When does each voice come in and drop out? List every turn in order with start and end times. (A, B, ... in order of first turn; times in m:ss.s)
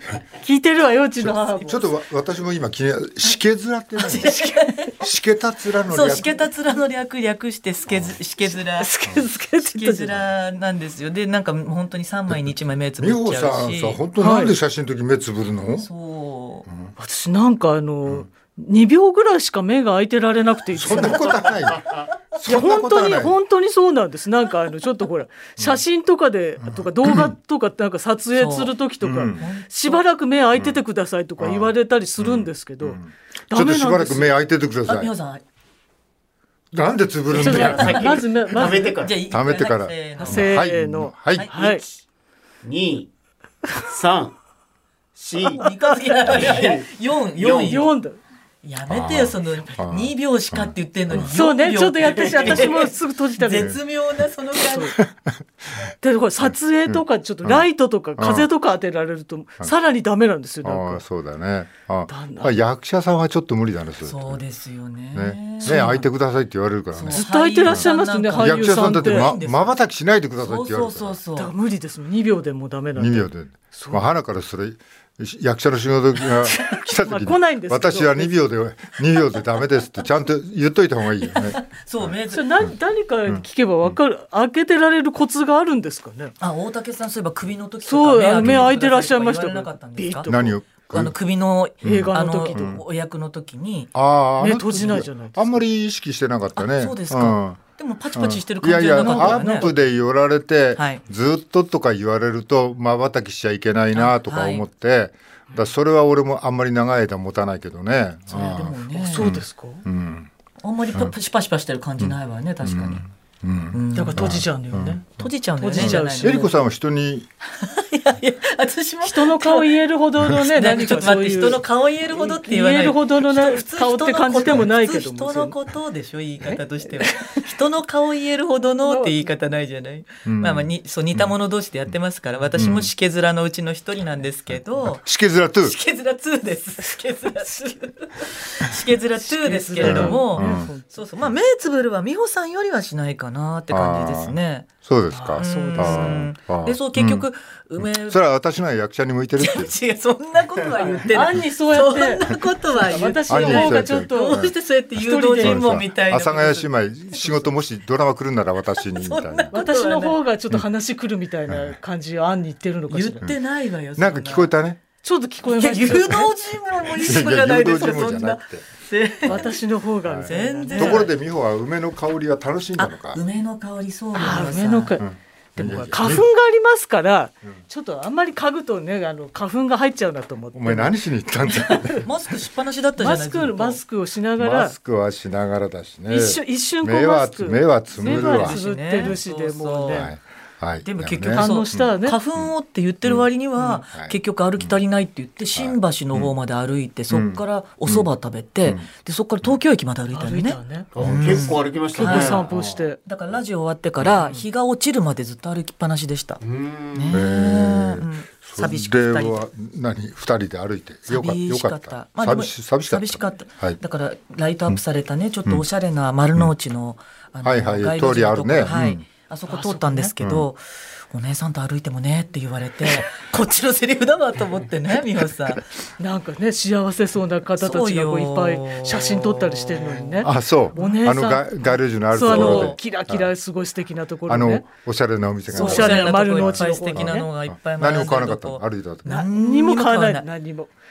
0:00.4-0:01.9 A
0:01.2-0:04.3 B
0:04.0-0:05.0 C
0:05.0-0:06.3 B
0:05.9-0:08.9 C
0:07.9-0:08.2 B
0:08.7-0:10.1 A
0:09.6-0:14.0 C
0:12.3-0:15.9 B
0:14.2-0:14.6 A
0:15.8-0:16.7 C
0:16.7-0:16.9 B
0:17.0-0:21.5 A
0:20.7-0:23.4 B
0:20.8-0:21.6 C
0:22.4-0:34.3 A
0:26.6-0:27.4 B
0:28.4-0:30.0 C
0:29.0-0:29.5 B
0:30.6-0:30.8 B
0:31.4-0:35.1 B
0:34.9-0:35.4 C
0:36.7-0:38.0 B
0:37.3-0:39.1 D
0:37.4-0:39.0 A
0:39.0-0:40.6 C
0:39.3-0:41.5 B
0:40.2-0:41.8 A
0:41.3-0:41.8 C
0:42.6-0:43.1 D
0:43.8-0:44.4 D
0:45.2-0:45.7 D
0:45.6-0:47.9 C
0:45.6-0:46.2 A
0:46.2-0:47.9 D
0:47.7-0:48.2 A
0:48.6-0:55.0 C
0:48.9-0:51.3 B
0:51.3-0:53.8 A
0:52.2-0:52.7 D
0:54.6-0:55.0 A
0:55.0-0:55.9 B
0:56.0-1:01.0 A
0:56.4-0:57.7 B
0:58.2-0:58.5 B
1:00.6-1:04.4 B
1:02.1-1:02.6 A
1:04.0-1:06.1 C
1:05.1-1:11.2 B
1:05.6-1:06.0 A
1:06.9-1:09.8 C
1:07.1-1:09.3 A
1:10.4-1:11.5 C
1:11.4-1:14.0 A
1:13.0-1:22.7 B
1:16.3-1:18.4 A
1:21.4-1:22.6 C
1:22.3-1:26.4 A
1:23.3-1:24.0 B
1:26.4-1:33.9 C
1:27.8-1:30.5 A
1:28.4-1:28.7 B
1:30.3-1:31.1 B
1:31.8-1:32.8 A
1:31.8-1:32.8 B
1:34.0-1:37.6 B
1:34.4-1:35.6 A
1:36.6-1:39.7 C
1:38.1-1:50.3 B
1:38.9-1:39.7 A
1:40.8-1:41.0 C
1:43.9-1:44.6 C
1:48.3-1:49.4 C
1:49.0-1:49.8 A
1:50.6-1:53.0 C
1:52.0-1:55.0 B
1:53.7-1:54.4 C
1:53.9-1:55.0 A
1:55.2-1:56.5 C
1:55.6-1:56.5 A
1:55.7-1:57.3 B
1:57.6-1:59.7 C
1:59.0-2:05.6 A
2:00.4-2:15.0 C
2:06.5-2:07.5 A
2:08.8-2:09.2 A
2:10.3-2:11.3 B
2:12.6-2:12.9 B
2:14.5-2:15.8 B
2:15.6-2:24.7 C
2:19.2-2:20.9 A
2:19.8-2:20.7 B
2:23.7-2:27.2 B
2:25.1-2:26.3 A
2:25.4-2:28.2 C
2:27.8-2:29.7 B
2:29.4-2:36.7 C
2:30.9-2:35.8 A
2:33.3-2:34.5 B
2:35.4-2:39.6 B
2:38.8-2:40.2 C
2:39.5-2:43.3 A
2:41.5-2:41.8 B
2:42.9-2:44.5 C
2:44.0-2:44.8 B
2:45.0-2:46.3 A
2:45.5-2:49.6 C
2:47.0-2:47.3 A
2:47.0-2:48.7 B
2:49.2-2:51.1 A
2:50.0-2:53.2 B
2:50.2-2:51.1 C
2:52.8-2:55.0 C
2:54.2-3:00.9 A
2:55.0-2:56.3 B
3:00.5-3:02.1 B
3:01.5-3:03.8 C
3:03.0-3:04.7 A
3:04.4-3:09.2 B
3:06.1-3:10.1 A
3:08.0-3:10.1 C
3:09.9-3:12.5 B
3:10.8-3:22.5 C
3:11.3-3:12.2 A
3:13.9-3:14.7 B
3:15.6-3:16.3 B
3:17.1-3:18.1 B
3:20.1-3:20.9 A
3:21.0-3:22.5 D
3:21.0-3:21.5 B
3:21.9-3:23.0 A
3:22.5-3:22.8 B
3:23.0-3:29.4 C
3:26.4-3:27.2 D
3:27.1-3:33.8 B
3:31.1-3:45.7 C
3:37.4-3:39.1 B
3:39.5-3:40.1 A
3:40.2-3:40.5 B
3:46.0-3:51.5 A
3:47.6-3:51.1 C
3:50.2-3:53.3 B
3:52.1-3:54.7 A
3:52.2-3:52.8 C
3:54.3-3:59.2 B
3:55.5-3:57.3 A
3:55.5-4:00.3 C
3:59.1-4:00.7 A